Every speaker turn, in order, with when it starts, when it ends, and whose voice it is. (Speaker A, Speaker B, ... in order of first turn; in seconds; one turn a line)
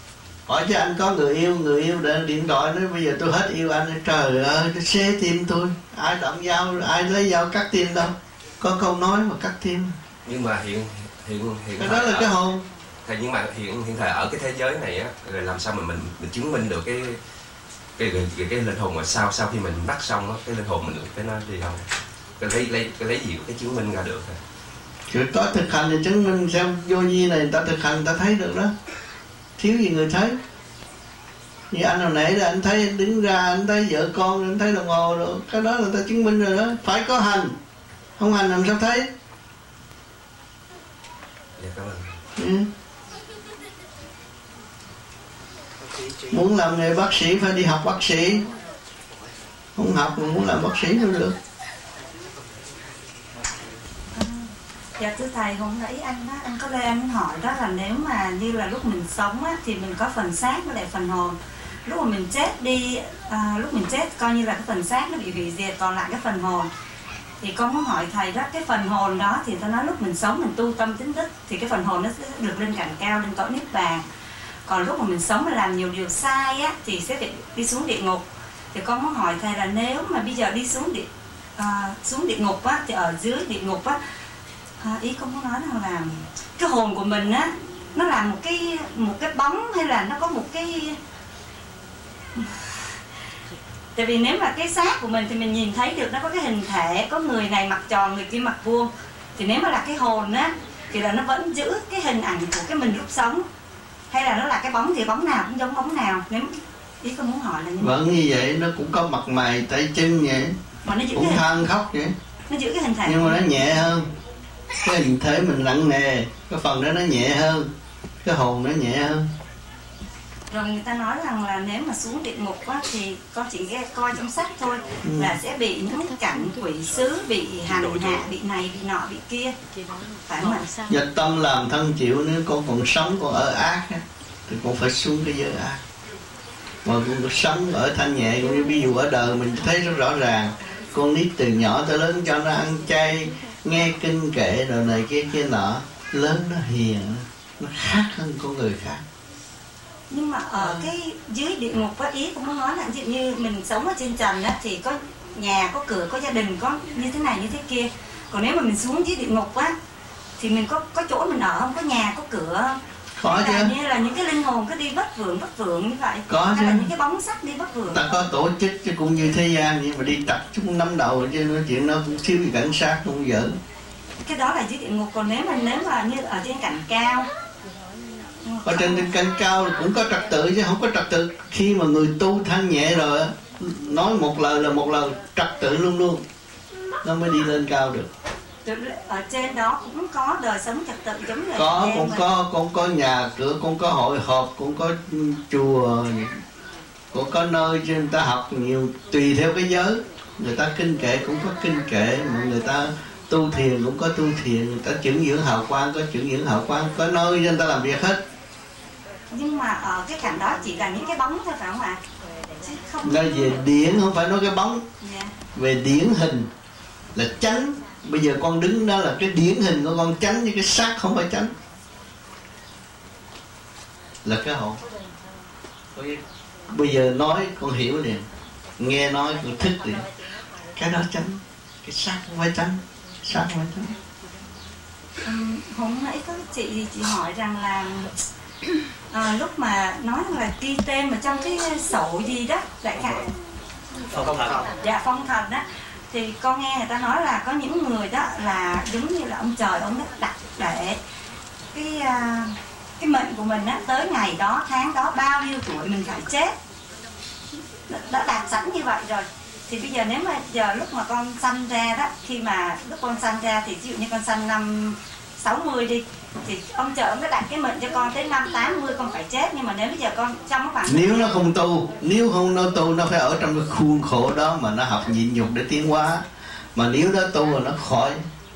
Speaker A: 0.5-10.0
Speaker B: 10.2-12.3
Speaker A: 11.8-12.7
Speaker B: 13.1-17.2
Speaker B: 18.0-21.8
Speaker B: 22.4-24.4
Speaker A: 25.1-28.7
Speaker A: 29.6-30.4
Speaker A: 31.7-37.5
Speaker A: 38.2-39.1
Speaker B: 41.6-42.2
Speaker A: 42.4-42.7
Speaker A: 46.3-48.4
Speaker A: 49.8-51.4
Speaker C: 54.1-66.7
Speaker C: 67.4-74.0
Speaker C: 74.7-84.0
Speaker C: 84.8-91.0
Speaker C: 94.0-103.5
Speaker C: 104.1-107.9
Speaker A: 107.8-110.5
Speaker C: 110.8-111.5
Speaker A: 111.1-112.1
Speaker C: 112.5-113.8
Speaker A: 113.0-114.1
Speaker A: 114.8-117.7
Speaker A: 118.2-119.3
Speaker C: 120.5-129.5
Speaker A: 125.0-125.4
Speaker C: 130.3-130.7
Speaker A: 130.9-135.8
Speaker A: 136.8-149.0
Speaker C: 150.1-159.8
Speaker A: 150.6-150.9
Speaker C: 160.4-168.0
Speaker A: 163.2-163.7
Speaker A: 166.3-166.9
Speaker A: 167.9-173.6
Speaker C: 174.2-177.3
Speaker C: 178.4-179.1
Speaker A: 178.6-186.2
Speaker A: 187.0-188.1
Speaker C: 188.7-192.2
Speaker A: 191.6-196.4
Speaker A: 197.1-208.2
Speaker C: 209.3-212.0
Speaker C: 212.6-213.5
Speaker A: 213.0-214.8
Speaker C: 215.0-215.3
Speaker A: 215.6-216.5
Speaker A: 217.2-221.5
Speaker A: 224.2-224.8
Speaker A: 225.9-228.3
Speaker A: 228.8-230.1
Speaker A: 230.8-233.9
Speaker C: 235.2-238.1
Speaker C: 239.1-243.3
Speaker C: 244.2-251.0
Speaker C: 251.7-256.5
Speaker C: 257.9-271.3
Speaker A: 270.9-276.2
Speaker A: 276.8-278.2